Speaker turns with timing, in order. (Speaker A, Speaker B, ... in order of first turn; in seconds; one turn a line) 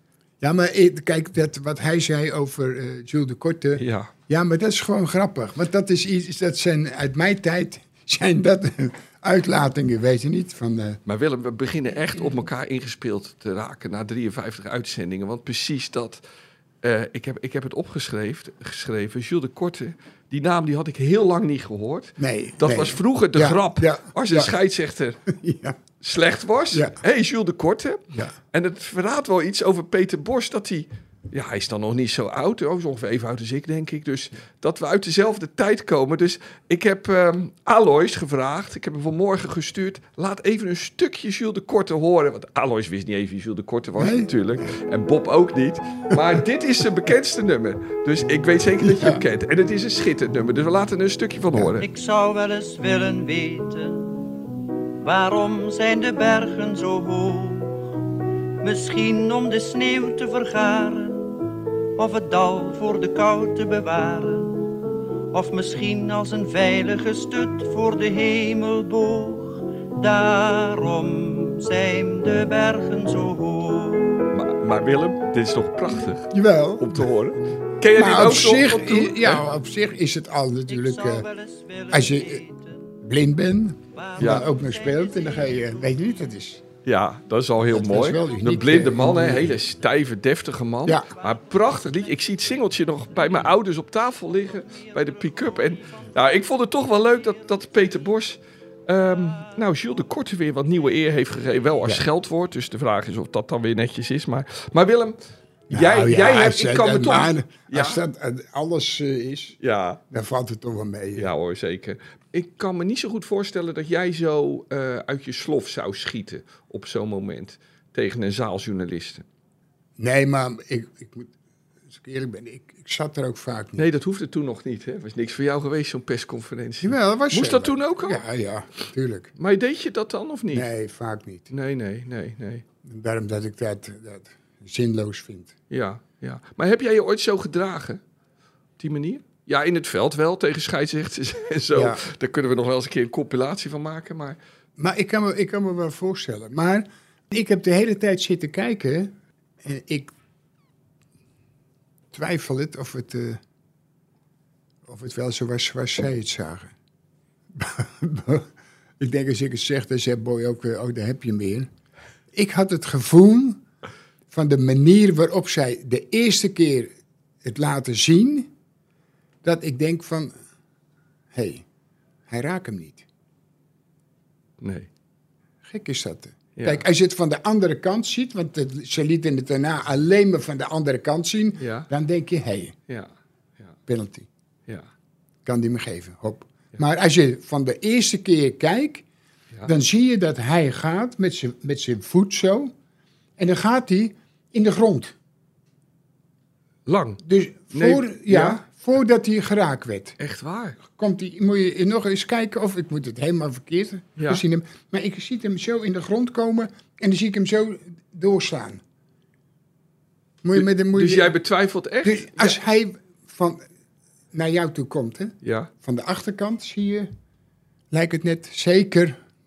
Speaker A: 0.4-11.0
Speaker B: 3.8-4.1
Speaker B: 11.1-16.2
Speaker B: 16.8-25.2
Speaker A: 22.2-24.5
Speaker A: 25.3-25.8
Speaker B: 26.0-51.8
Speaker A: 26.7-27.0
Speaker A: 44.0-44.7
Speaker A: 48.8-49.2
Speaker A: 51.5-51.8
Speaker C: 51.8-54.3
Speaker C: 55.0-58.0
Speaker C: 58.6-61.3
Speaker C: 62.0-64.8
Speaker C: 65.3-74.3
Speaker B: 74.3-79.4
Speaker A: 76.3-81.3
Speaker C: 80.7-83.0
Speaker A: 81.9-82.4
Speaker A: 83.0-86.6
Speaker C: 83.9-86.0
Speaker B: 84.2-84.5
Speaker B: 86.8-105.2
Speaker A: 87.7-89.6
Speaker C: 94.5-96.1
Speaker A: 105.7-109.6
Speaker B: 105.7-108.0
Speaker B: 109.6-110.0
Speaker A: 110.1-111.3
Speaker B: 111.2-119.2
Speaker A: 120.0-121.3
Speaker A: 121.9-123.9
Speaker B: 123.8-128.2
Speaker A: 126.8-129.3
Speaker B: 129.4-130.7
Speaker A: 130.5-131.5
Speaker B: 131.5-132.6
Speaker A: 132.8-135.6
Speaker B: 135.7-138.0
Speaker B: 138.8-144.4
Speaker A: 141.7-142.0
Speaker A: 144.8-150.1
Speaker A: 152.1-153.4
Speaker A: 154.8-156.7
Speaker A: 157.5-161.7
Speaker A: 162.3-163.6
Speaker A: 164.3-168.5
Speaker A: 169.4-170.3
Speaker A: 171.3-171.7
Speaker A: 172.3-173.1
Speaker B: 174.6-174.9
Speaker A: 175.6-182.8
Speaker B: 176.6-176.9
Speaker B: 181.6-181.9
Speaker A: 183.9-184.3
Speaker A: 185.4-189.1
Speaker A: 189.7-192.7
Speaker A: 193.4-195.1
Speaker B: 196.9-197.2
Speaker A: 197.2-200.2
Speaker B: 197.7-198.6
Speaker B: 200.2-200.8
Speaker A: 200.8-208.8
Speaker B: 204.2-204.4
Speaker A: 210.4-211.3
Speaker B: 210.6-212.6
Speaker A: 212.0-213.6
Speaker A: 214.3-217.1
Speaker B: 215.4-215.7
Speaker A: 217.9-219.2